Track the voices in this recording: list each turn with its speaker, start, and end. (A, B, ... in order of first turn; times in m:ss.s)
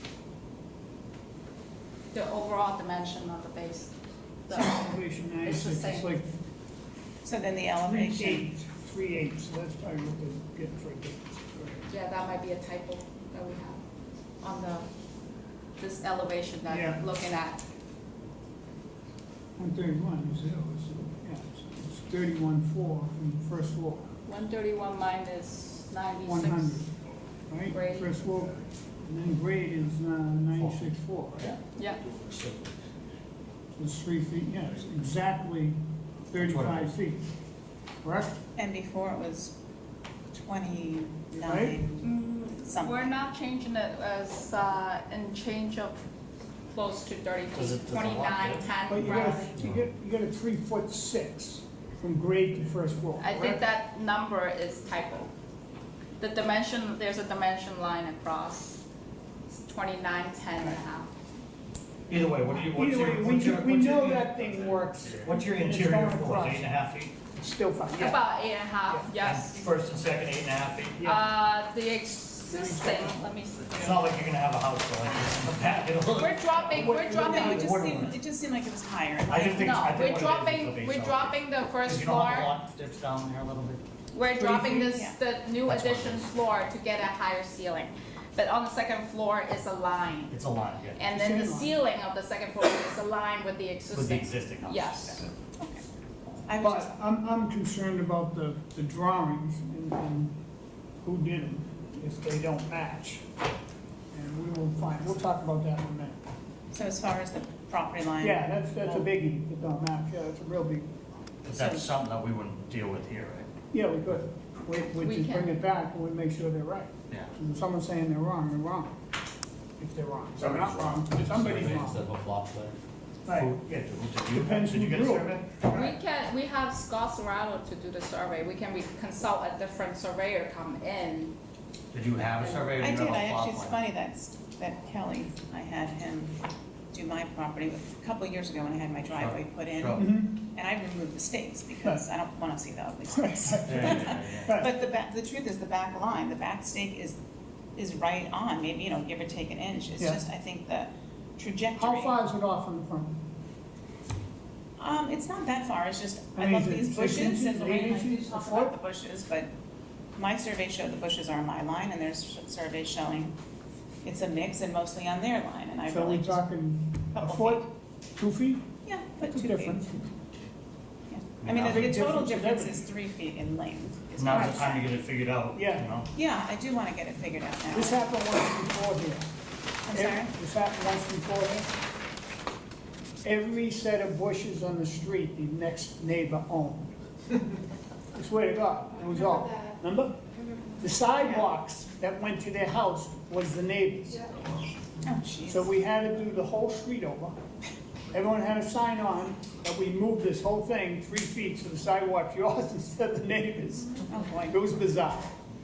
0:02.1-0:04.0 A
0:04.5-0:04.9 A
0:04.5-0:06.3 B
0:05.4-0:06.2 A
0:07.2-0:08.5 C
0:07.9-0:11.9 B
0:11.9-0:13.8 A
0:14.4-0:14.9 A
0:15.8-0:17.6 A
0:16.7-0:17.0 B
0:19.6-0:24.0 B
0:24.3-0:26.9 A
0:26.2-0:26.9 B
0:27.5-0:31.5 B
0:27.7-0:28.1 A
0:31.8-0:32.0 A
0:32.2-0:32.6 D
0:33.8-0:35.8 B
0:36.3-0:37.2 B
0:36.4-0:36.9 D
0:38.0-0:38.4 B
0:38.6-0:39.6 C
0:40.3-0:42.1 C
0:41.4-0:41.8 B
0:42.0-0:46.0 A
0:42.6-0:43.0 C
0:46.7-0:49.6 A
0:47.5-0:49.8 D
0:48.9-0:53.7 B
0:53.2-0:55.3 A
0:56.2-0:58.8 A
0:59.5-1:01.1 A
1:02.1-1:04.4 D
1:02.6-1:06.7 B
1:04.6-1:05.2 E
1:05.2-1:07.2 D
1:07.3-1:08.2 B
1:08.0-1:09.6 A
1:08.9-1:09.1 B
1:09.1-1:11.1 D
1:11.0-1:11.2 B
1:11.0-1:14.1 A
1:12.4-1:14.0 B
1:13.8-1:18.2 D
1:16.1-1:17.8 A
1:16.7-1:17.8 B
1:17.0-1:19.8 C
1:19.2-1:23.8 D
1:19.5-1:22.6 A
1:24.1-1:30.4 A
1:24.4-1:24.9 B
1:24.8-1:25.2 C
1:25.7-1:26.3 D
1:30.3-1:31.0 D
1:31.0-1:35.3 A
1:31.1-1:31.8 B
1:33.9-1:35.3 D
1:35.6-1:35.8 C
1:36.5-1:36.9 C
1:36.6-1:40.4 B
1:41.0-1:43.2 B
1:44.1-1:46.2 B
1:46.7-1:48.4 C
1:48.2-1:50.9 B
1:51.4-1:53.5 D
1:51.5-1:51.9 C
1:53.7-1:59.0 B
1:55.0-1:55.6 A
1:59.8-2:02.1 B
2:00.4-2:00.7 D
2:01.1-2:02.5 E
2:01.4-2:01.8 D
2:03.2-2:03.5 B
2:03.3-2:05.6 D
2:04.3-2:05.9 B
2:05.7-2:11.4 A
2:11.9-2:13.8 D
2:12.4-2:12.7 A
2:12.7-2:16.4 C
2:16.9-2:27.2 C
2:19.1-2:20.0 D
2:20.0-2:20.4 B
2:23.2-2:24.7 B
2:23.6-2:24.5 D
2:27.8-2:32.2 C
2:31.8-2:33.1 B
2:34.8-2:39.5 C
2:36.4-2:38.8 B
2:40.2-2:43.3 C
2:44.0-2:46.4 C
2:45.9-2:48.7 B
2:47.1-2:47.7 C
2:48.8-2:49.8 C
2:49.2-2:50.1 B
2:51.1-2:55.0 C
2:51.4-2:52.1 D
2:51.6-2:52.8 B
2:54.2-2:56.1 D
2:54.3-2:54.6 B
2:55.5-2:55.9 B
2:56.1-2:58.0 C
2:57.7-2:59.3 B
2:59.9-3:00.3 C
2:59.9-3:01.7 B
3:03.2-3:06.9 B
3:08.1-3:10.2 B
3:09.3-3:09.7 A
3:10.8-3:14.2 B
3:15.0-3:15.7 C
3:15.5-3:17.4 B
3:18.1-3:25.3 B
3:24.1-3:24.6 C